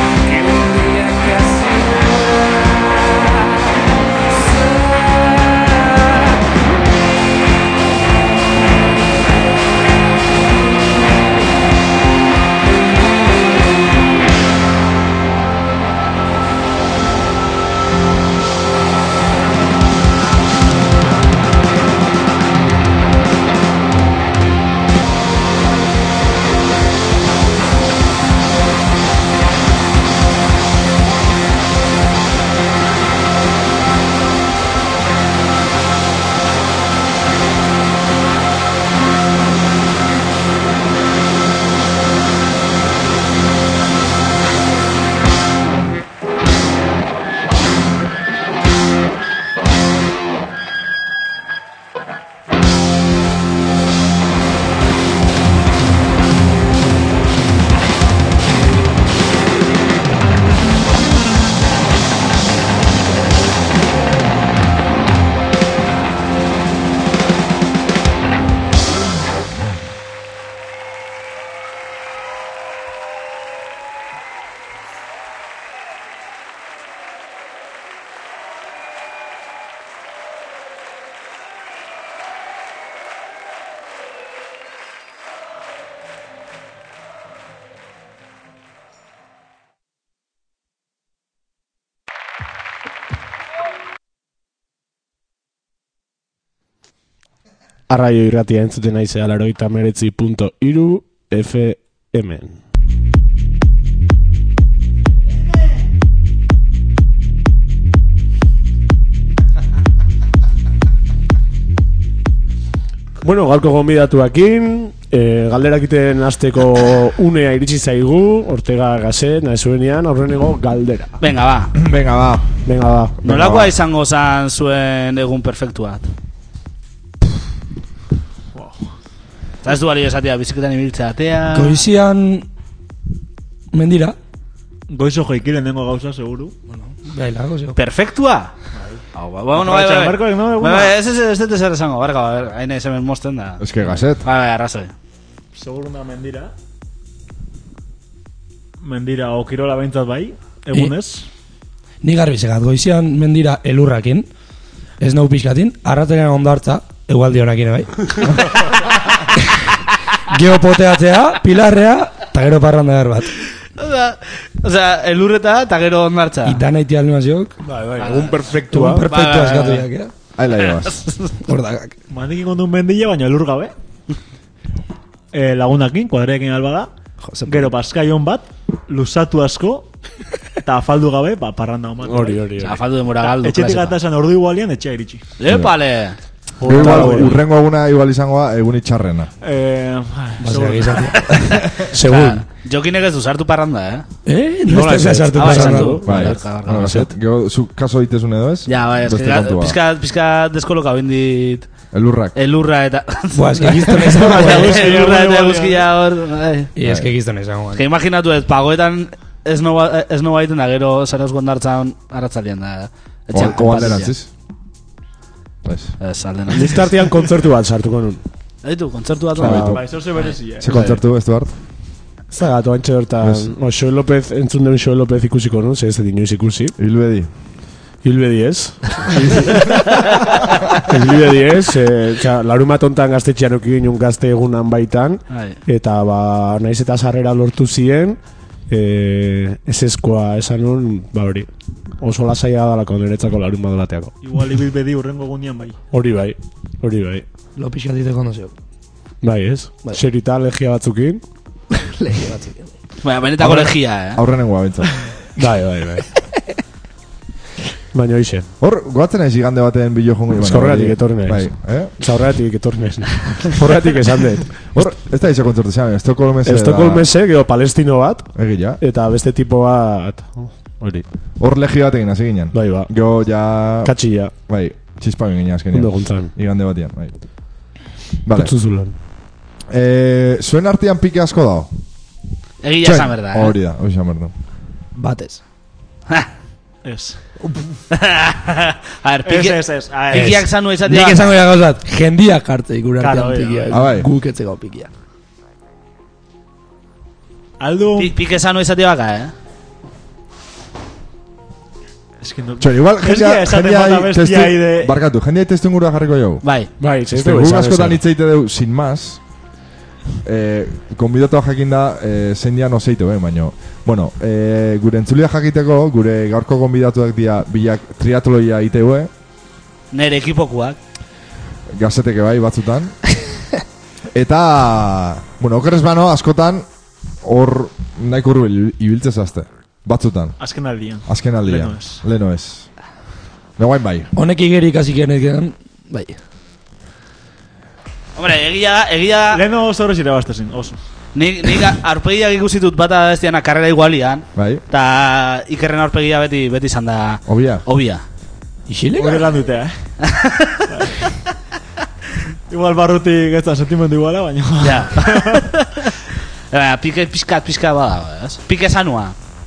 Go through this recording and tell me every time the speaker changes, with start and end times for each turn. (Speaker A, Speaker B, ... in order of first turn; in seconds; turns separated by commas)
Speaker A: 0.2-6.4, Speaker B: 97.9-102.6, Speaker B: 113.2-121.2, Speaker C: 121.2-121.7, Speaker D: 121.7-122.6, Speaker B: 122.6-123.5, Speaker C: 123.2-126.1, Speaker D: 123.2-123.7, Speaker E: 128.5-128.9, Speaker C: 129.6-131.8, Speaker F: 131.5-132.5, Speaker F: 133.7-134.2, Speaker E: 134.9-136.5, Speaker F: 136.8-137.8, Speaker C: 137.8-138.5, Speaker E: 138.7-141.0, Speaker C: 139.1-144.9, Speaker D: 143.6-144.2, Speaker E: 145.5-146.5, Speaker E: 148.8-151.2, Speaker F: 152.0-154.3, Speaker F: 155.0-158.7, Speaker F: 160.3-163.3, Speaker C: 163.8-166.6, Speaker F: 166.4-167.5, Speaker B: 167.6-169.1, Speaker C: 168.0-169.9, Speaker F: 168.7-170.1, Speaker D: 170.3-171.0, Speaker C: 170.8-171.1, Speaker F: 171.4-171.9, Speaker E: 172.1-173.7, Speaker E: 175.3-176.9, Speaker F: 177.2-177.7, Speaker E: 177.4-179.9, Speaker E: 180.6-182.6, Speaker B: 182.0-182.8, Speaker C: 182.6-183.9, Speaker E: 183.2-185.2, Speaker C: 185.4-186.2, Speaker D: 185.5-185.7, Speaker E: 186.6-187.3, Speaker B: 186.6-187.4, Speaker D: 186.6-189.3, Speaker E: 189.4-191.4, Speaker F: 190.4-191.3, Speaker C: 191.4-194.1, Speaker B: 191.8-192.4, Speaker F: 194.2-196.0, Speaker B: 194.7-197.1, Speaker C: 195.3-197.0, Speaker D: 196.0-199.8, Speaker C: 198.7-201.7, Speaker D: 201.9-202.3, Speaker C: 202.3-206.7, Speaker F: 203.3-204.9, Speaker E: 204.0-205.9, Speaker F: 206.8-207.8, Speaker C: 207.7-214.1, Speaker D: 213.3-214.3, Speaker D: 215.6-215.9, Speaker C: 216.0-216.9, Speaker B: 216.5-218.2, Speaker C: 218.6-219.8, Speaker D: 219.3-219.9, Speaker B: 219.4-219.8, Speaker E: 219.7-220.7, Speaker D: 220.6-221.5, Speaker B: 220.7-221.0, Speaker B: 222.3-226.7, Speaker D: 223.2-223.5, Speaker D: 226.8-227.3, Speaker B: 228.0-230.0, Speaker B: 230.8-241.5, Speaker C: 235.3-235.6, Speaker B: 242.0-244.1, Speaker E: 244.2-245.8, Speaker B: 245.9-247.2, Speaker F: 247.6-248.5, Speaker B: 249.2-251.2, Speaker F: 251.7-252.7, Speaker C: 253.0-254.2, Speaker D: 253.4-254.9, Speaker B: 255.4-256.1, Speaker B: 257.9-258.5, Speaker D: 258.6-261.9, Speaker B: 260.3-264.8, Speaker D: 264.7-267.1, Speaker B: 266.4-271.1, Speaker D: 268.3-268.8, Speaker D: 271.4-273.9, Speaker B: 272.5-272.9, Speaker B: 273.8-274.3, Speaker D: 274.5-277.1, Speaker B: 275.7-276.3, Speaker D: 278.2-278.5, Speaker B: 278.3-278.9, Speaker D: 279.7-281.7, Speaker C: 282.6-283.5, Speaker D: 282.8-284.3, Speaker F: 284.9-285.4, Speaker E: 286.8-287.2, Speaker C: 287.9-291.4, Speaker E: 289.2-290.4, Speaker F: 290.1-294.9, Speaker E: 293.0-293.9, Speaker D: 293.7-294.1, Speaker E: 297.6-298.2, Speaker C: 298.0-299.3, Speaker E: 302.2-304.9, Speaker D: 302.6-306.4, Speaker C: 306.4-306.7, Speaker B: 306.8-308.0, Speaker D: 307.1-309.2, Speaker D: 310.2-319.1, Speaker C: 319.9-320.8, Speaker D: 321.7-323.0, Speaker D: 324.1-326.7, Speaker D: 327.2-330.4, Speaker E: 330.4-332.0, Speaker D: 331.1-332.7, Speaker D: 333.6-334.1, Speaker F: 334.1-336.2, Speaker C: 338.1-339.4, Speaker E: 339.3-340.8, Speaker C: 341.1-348.0, Speaker D: 344.3-344.6, Speaker D: 347.3-347.6, Speaker F: 348.7-349.3, Speaker E: 348.9-349.8, Speaker C: 350.1-350.6, Speaker E: 350.7-351.0, Speaker E: 352.5-355.5, Speaker C: 354.6-355.9, Speaker C: 356.5-359.1